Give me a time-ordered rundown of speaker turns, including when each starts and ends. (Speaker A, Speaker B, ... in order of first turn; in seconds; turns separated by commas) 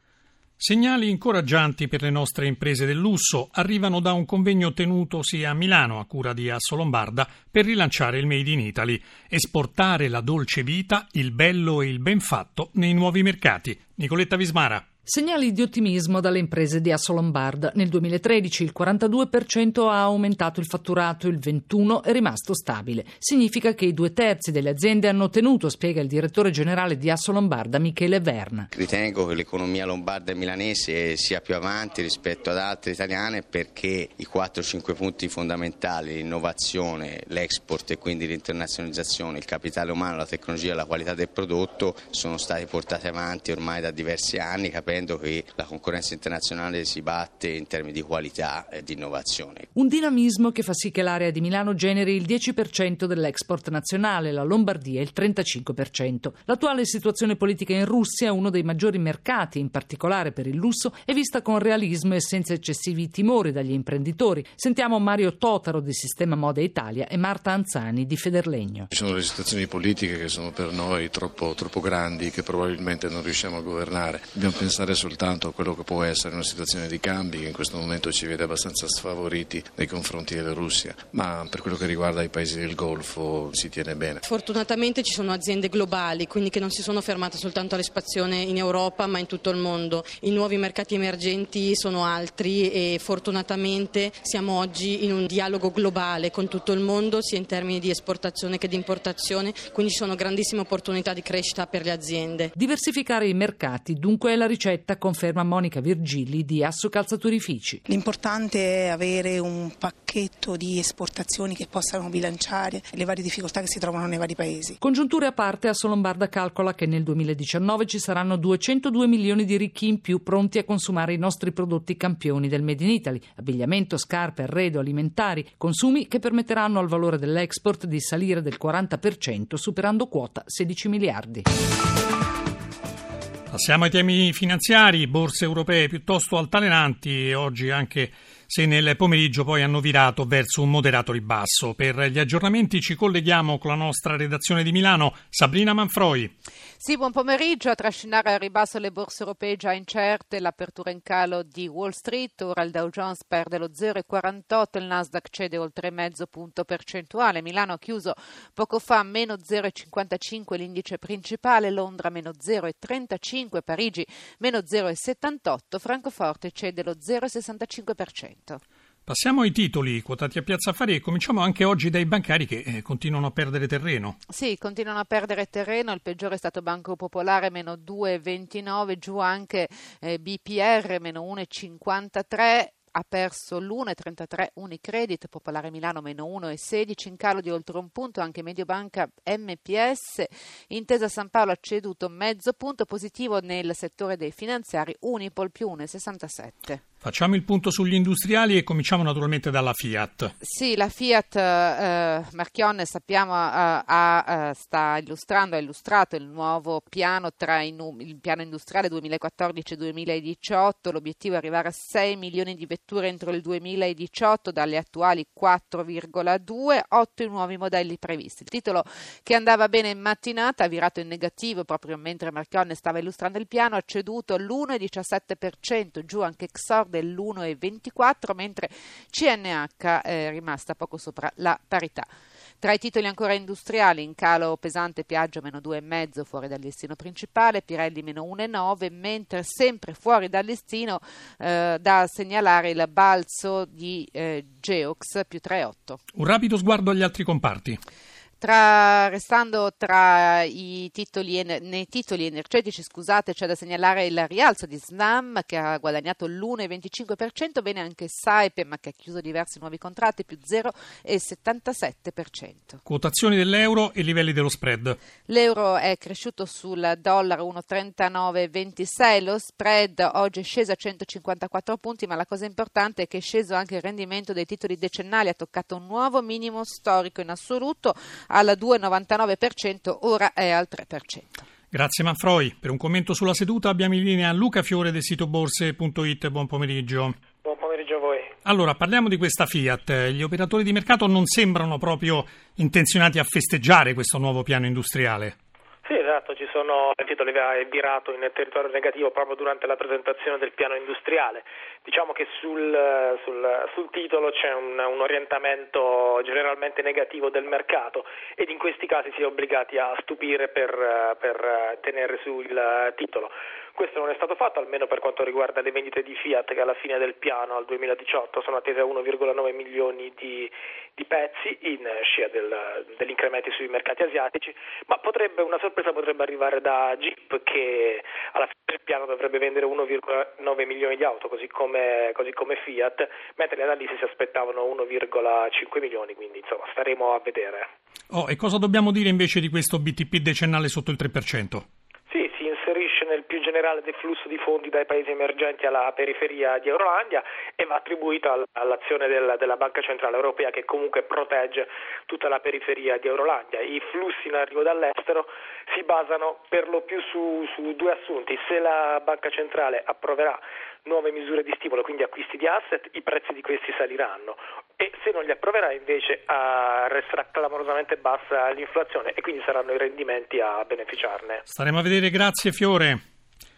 Speaker A: 0.6-14.8, Speaker B: 15.1-28.7, Speaker C: 28.8-49.7, Speaker B: 49.8-68.9, Speaker D: 68.9-84.2, Speaker E: 84.2-102.5, Speaker B: 102.6-107.8, Speaker F: 107.9-114.8, Speaker B: 114.8-131.4, Speaker A: 133.5-146.3, Speaker G: 146.8-168.6, Speaker A: 169.1-174.2, Speaker G: 174.3-196.8, Speaker A: 197.0-200.3, Speaker G: 200.4-232.1, Speaker G: 232.6-246.0, Speaker A: 246.1-247.8, Speaker G: 248.4-262.8, Speaker A: 262.9-265.0, Speaker G: 265.3-281.4, Speaker A: 281.7-287.1, Speaker H: 287.4-288.3, Speaker A: 288.4-295.4, Speaker H: 295.9-337.7, Speaker A: 338.1-341.6, Speaker H: 342.1-371.4, Speaker A: 371.5-373.0